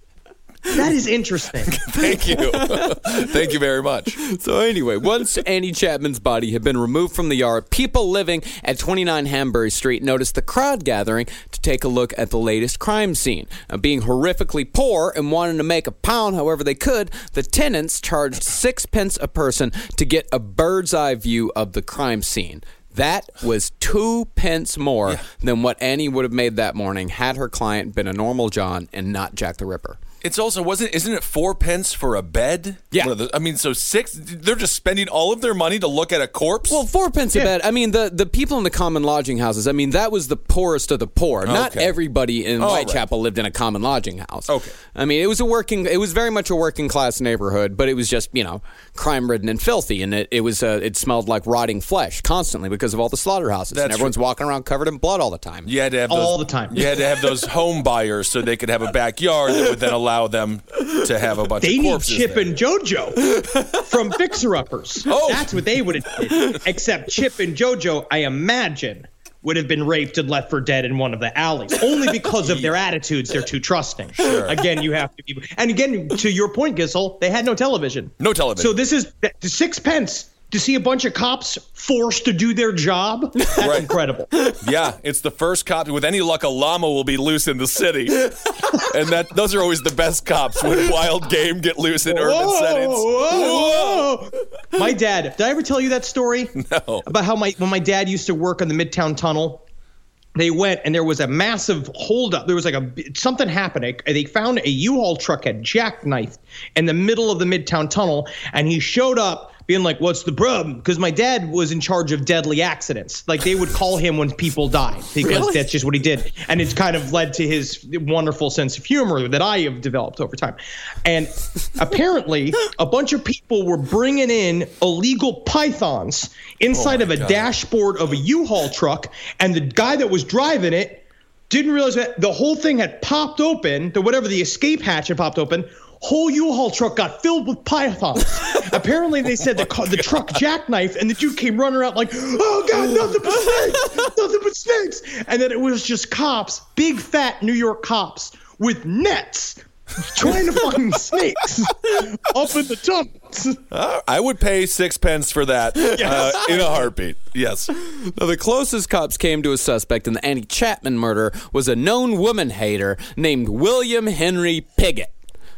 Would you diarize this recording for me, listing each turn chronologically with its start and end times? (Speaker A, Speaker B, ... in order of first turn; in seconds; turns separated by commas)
Speaker A: 0.7-1.8, Speaker B: 1.7-4.2, Speaker C: 2.4-3.2, Speaker C: 4.2-30.0, Speaker B: 30.2-36.8, Speaker C: 36.7-55.7, Speaker B: 41.5-42.0, Speaker B: 42.6-43.0, Speaker B: 44.5-44.8, Speaker B: 53.7-54.1, Speaker B: 55.7-62.5, Speaker A: 56.1-56.9, Speaker A: 61.6-84.3, Speaker B: 65.1-65.6, Speaker B: 74.2-74.6, Speaker B: 78.2-78.8, Speaker B: 83.6-83.9, Speaker B: 84.6-94.2, Speaker A: 92.1-96.5, Speaker B: 96.6-97.1, Speaker A: 97.1-99.6, Speaker A: 100.4-153.6, Speaker B: 126.7-127.5, Speaker B: 153.7-157.7, Speaker A: 155.9-156.9, Speaker C: 157.8-165.1